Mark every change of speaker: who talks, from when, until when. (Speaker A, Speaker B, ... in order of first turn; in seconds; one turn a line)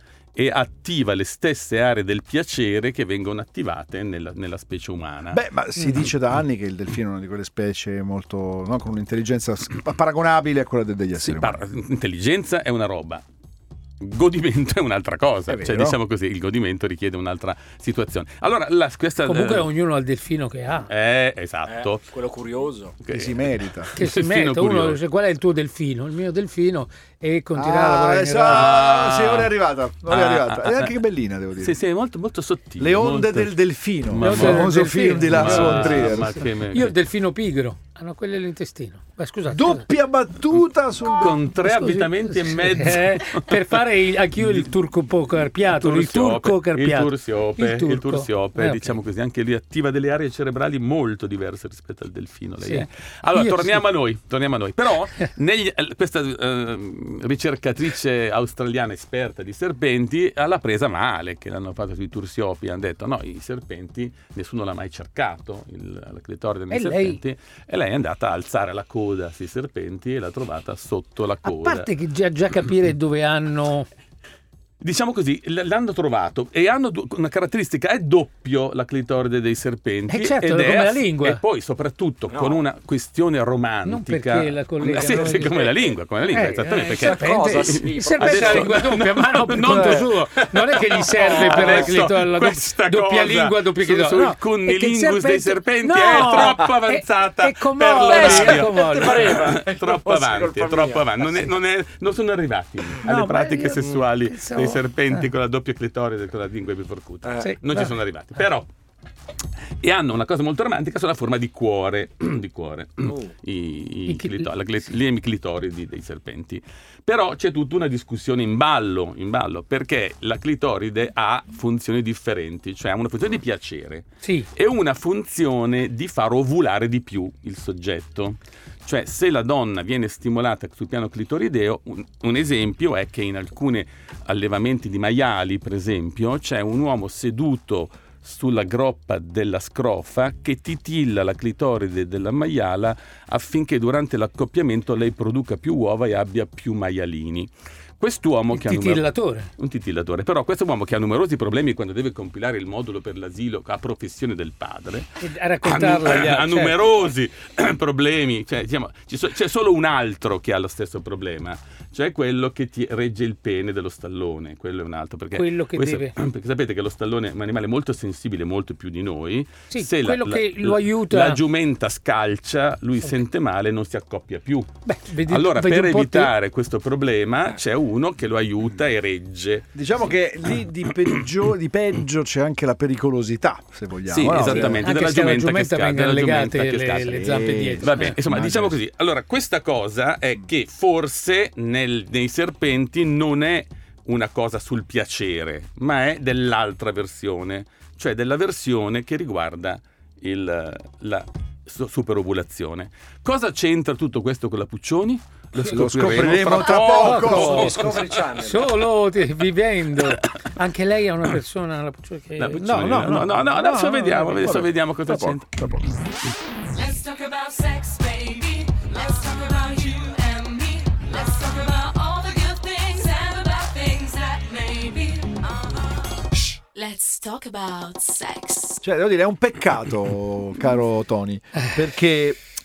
Speaker A: 0.3-5.4
Speaker B: 5.3-11.6
Speaker A: 11.2-13.2
Speaker A: 14.0-19.7
Speaker B: 15.5-16.0
Speaker C: 19.2-20.9
Speaker A: 20.9-22.0
Speaker D: 21.6-23.0
Speaker A: 23.0-25.0
Speaker B: 23.1-23.9
Speaker C: 23.9-28.7
Speaker B: 27.6-31.8
Speaker A: 28.4-29.5
Speaker A: 30.1-30.9
Speaker A: 31.6-33.5
Speaker B: 32.8-36.4
Speaker A: 34.1-36.9
Speaker C: 34.2-39.9
Speaker B: 39.5-41.4
Speaker A: 41.1-43.6
Speaker C: 41.6-49.0
Speaker A: 44.4-44.7
Speaker A: 45.6-71.9
Speaker C: 52.6-53.8
Speaker C: 66.7-67.2
Speaker C: 71.4-73.9
Speaker A: 74.8-108.7
Speaker C: 80.1-81.4
Speaker D: 82.3-82.6
Speaker C: 83.8-99.4
Speaker D: 86.8-88.9
Speaker D: 91.2-91.9
Speaker D: 98.0-101.5
Speaker C: 103.0-105.3
Speaker D: 107.2-107.5
Speaker C: 107.4-107.9
Speaker A: 109.8-174.7
Speaker D: 113.0-113.3
Speaker C: 114.1-114.5
Speaker C: 124.2-124.5
Speaker C: 148.5-149.5
Speaker C: 155.2-156.8
Speaker C: 165.3-166.1
Speaker C: 169.7-171.4
Speaker C: 174.8-176.3
Speaker A: 175.2-179.7
Speaker B: 179.7-184.9
Speaker A: 184.1-208.3
Speaker C: 184.8-188.2
Speaker B: 187.0-188.8
Speaker B: 205.6-207.7
Speaker C: 206.7-214.5
Speaker D: 207.2-208.8
Speaker A: 210.0-210.2
Speaker A: 212.4-216.0
Speaker B: 213.6-215.9
Speaker E: 216.7-228.8
Speaker B: 228.8-232.4